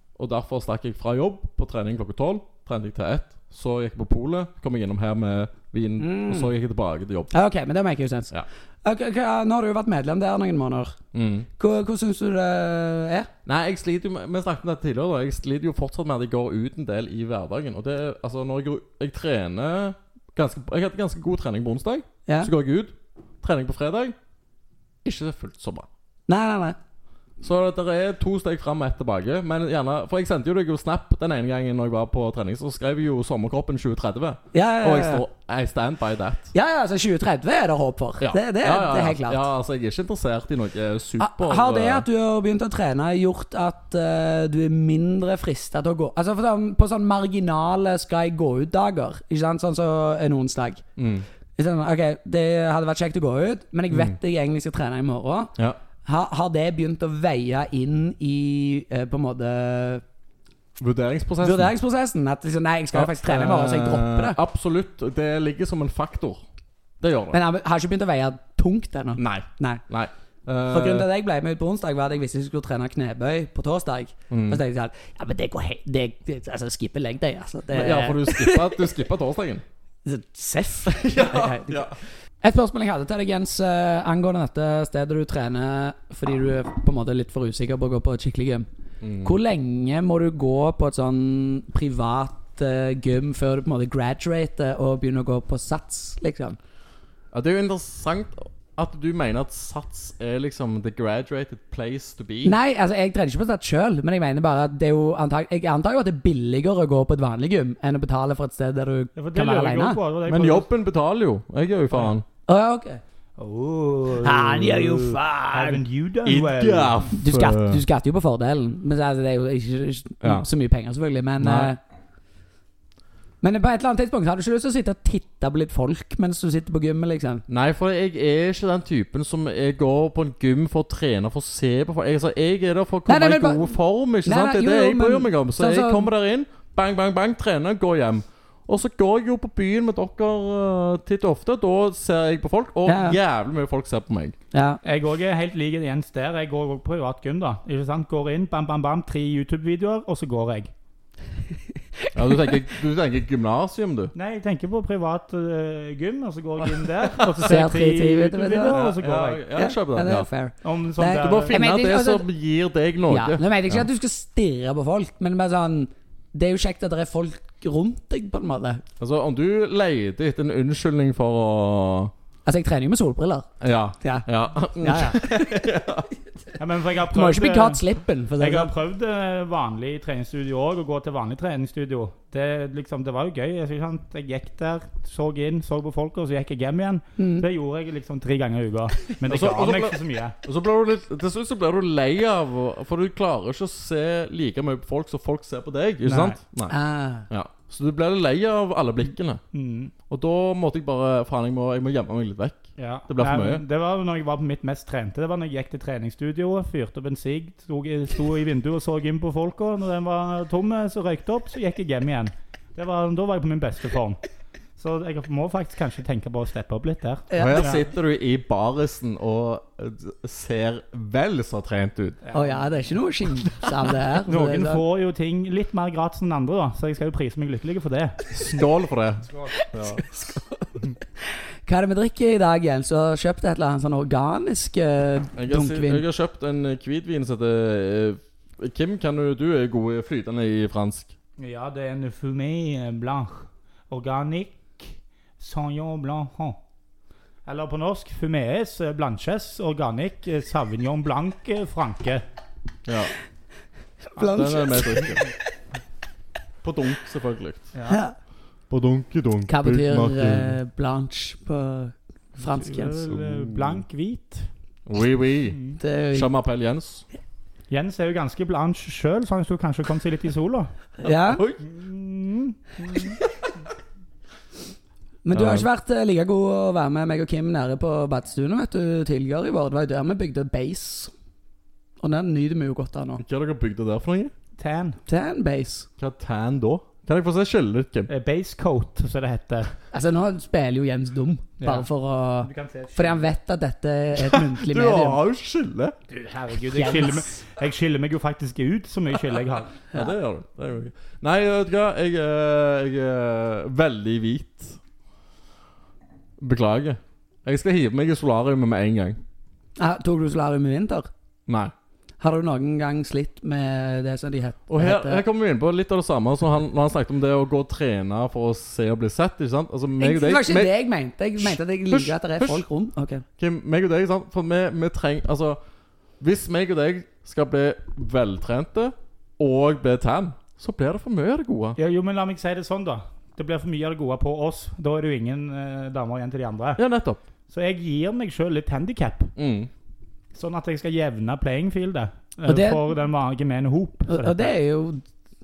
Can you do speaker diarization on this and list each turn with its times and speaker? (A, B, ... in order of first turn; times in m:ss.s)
0:00.2-0:07.3 A
0:06.0-0:06.5 B
0:07.3-0:11.0 B
0:11.1-0:11.5 A
0:11.6-0:13.3 B
0:13.5-0:24.2 A
0:25.0-0:25.9 A
0:26.3-0:26.8 B
0:27.4-0:36.5 A
0:34.5-0:35.2 B
0:36.5-0:39.4 B
0:38.2-0:42.1 A
0:41.2-0:50.8 B
0:51.0-0:51.3 A
0:51.6-1:00.0 B
1:00.8-1:01.7 A
1:01.4-1:04.4 B
1:02.9-1:06.4 A
1:07.0-1:07.4 A
1:07.3-1:09.8 B
1:09.2-1:11.1 A
1:10.7-1:18.8 B
1:14.3-1:14.6 A
1:17.7-1:19.6 A
1:20.0-1:28.7 B
1:21.0-1:22.0 A
1:29.0-1:29.3 A
1:29.2-1:36.6 B
1:37.3-1:42.6 A
1:42.4-1:50.0 B
1:49.2-1:50.7 C
1:50.3-1:52.2 A
1:52.5-1:53.0 B
1:53.4-1:57.0 C
1:54.2-1:55.8 B
1:56.2-1:57.8 A
1:57.2-2:01.8 B
2:00.2-2:00.5 A
2:01.4-2:01.7 A
2:03.4-2:07.4 B
2:07.5-2:24.4 A
2:13.1-2:16.1 B
2:22.9-2:23.2 B
2:24.5-2:24.8 B
2:24.8-2:30.7 C
2:32.0-2:32.5 B
2:32.1-2:34.1 A
2:34.2-2:39.5 C
2:37.0-2:37.6 A
2:37.4-2:38.8 B
2:38.7-2:40.3 A
2:39.6-2:42.3 B
2:40.6-2:41.6 C
2:41.2-2:43.9 A
2:43.1-2:48.8 B
2:49.0-2:52.1 A
2:52.5-2:53.5 B
2:53.6-2:56.1 A
2:54.0-2:55.6 B
2:56.6-2:57.8 C
2:57.1-2:58.7 B
2:58.4-3:10.4 C
3:07.2-3:07.5 B
3:09.2-3:16.8 A
3:16.0-3:16.4 C
3:16.7-3:17.3 B
3:17.3-3:19.4 A
3:19.5-3:19.9 C
3:20.1-3:23.6 A
3:22.8-3:34.2 C
3:34.8-3:37.8 C
3:37.3-3:37.7 B
3:37.4-3:42.2 A
3:42.2-3:42.6 C
3:42.3-3:44.8 B
3:44.3-3:48.2 C
3:48.3-3:50.0 A
3:49.5-3:50.9 B
3:51.6-3:56.0 B
3:55.4-4:01.1 A
4:01.4-4:06.6 C
4:07.4-4:12.2 C
4:12.9-4:13.2 A
4:14.1-4:15.2 B
4:14.2-4:15.3 A
4:16.6-4:17.7 A
4:17.7-4:18.0 C
4:17.9-4:18.2 B
4:18.7-4:20.6 A
4:19.5-4:23.0 B
4:22.4-4:24.5 C
4:23.1-4:23.8 A
4:24.9-4:25.6 A
4:25.5-4:25.8 C
4:25.8-4:26.3 B
4:26.1-4:27.0 A
4:27.7-4:30.7 C
4:31.0-4:31.5 B
4:31.0-4:31.6 A
4:31.6-4:33.2 C
4:35.2-4:41.1 B
4:35.3-4:35.7 A
4:42.0-4:43.2 B
4:43.2-4:44.3 A
4:44.6-4:45.0 C
4:45.1-4:45.9 B
4:46.0-4:48.1 A
4:48.1-4:49.7 C
4:49.9-4:55.2 B
4:51.6-4:51.9 C
4:52.4-4:53.2 C
4:54.2-4:56.0 A
4:56.1-4:59.8 C
4:56.7-4:57.3 B
4:59.9-5:04.8 A
5:06.4-5:09.2 A
5:09.8-5:11.1 B
5:11.5-5:11.7 A
5:12.2-5:15.2 B
5:14.7-5:20.7 A
5:20.0-5:23.2 B
5:21.4-5:22.7 A
5:23.4-5:25.6 A
5:26.2-5:31.8 A
5:31.8-5:36.8 C
5:36.8-5:37.2 A
5:37.5-5:39.3 C
5:39.4-5:39.7 A
5:40.3-5:44.5 C
5:42.5-5:42.9 B
5:44.1-5:45.0 B